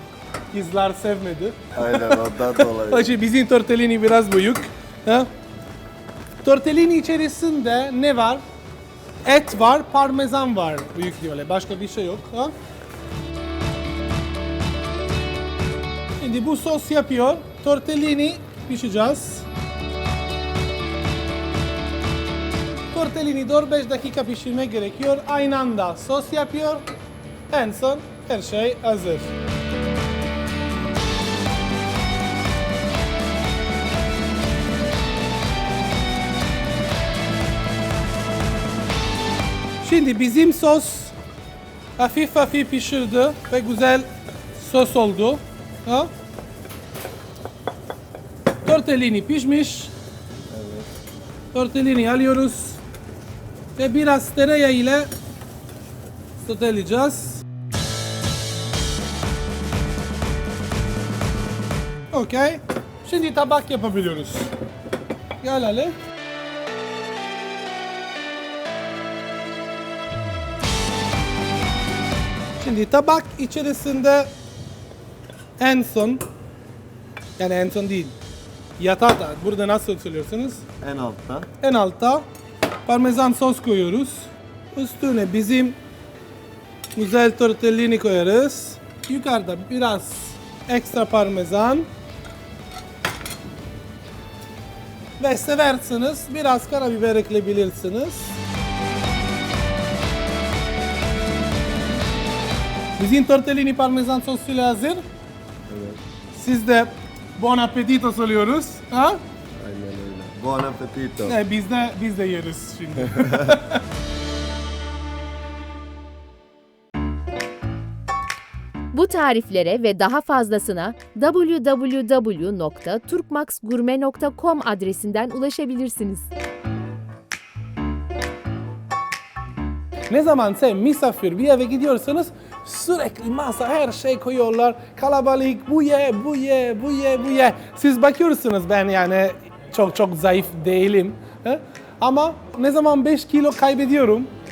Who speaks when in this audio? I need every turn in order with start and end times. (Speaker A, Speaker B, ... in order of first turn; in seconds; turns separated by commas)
Speaker A: 0.5-5.3, Speaker B: 1.7-3.1, Speaker A: 6.4-8.4, Speaker A: 9.2-12.5, Speaker A: 16.2-19.5, Speaker A: 22.9-26.8, Speaker A: 27.5-29.3, Speaker A: 39.8-41.1, Speaker A: 42.0-46.1, Speaker A: 48.6-49.9, Speaker B: 50.5-50.9, Speaker A: 51.5-52.8, Speaker A: 53.8-55.1, Speaker A: 56.4-57.4, Speaker A: 62.1-64.5, Speaker A: 65.4-65.9, Speaker A: 72.6-74.3, Speaker A: 75.6-76.2, Speaker A: 77.4-78.1, Speaker A: 78.8-80.6, Speaker B: 80.8-81.5, Speaker A: 81.6-82.2, Speaker A: 82.8-85.8, Speaker A: 86.9-91.8, Speaker A: 95.2-98.4, Speaker A: 103.0-105.0, Speaker B: 105.7-106.0, Speaker A: 106.3-109.2, Speaker B: 109.6-111.4, Speaker A: 111.2-113.8, Speaker B: 113.1-113.5, Speaker C: 118.9-126.3, Speaker A: 130.1-144.3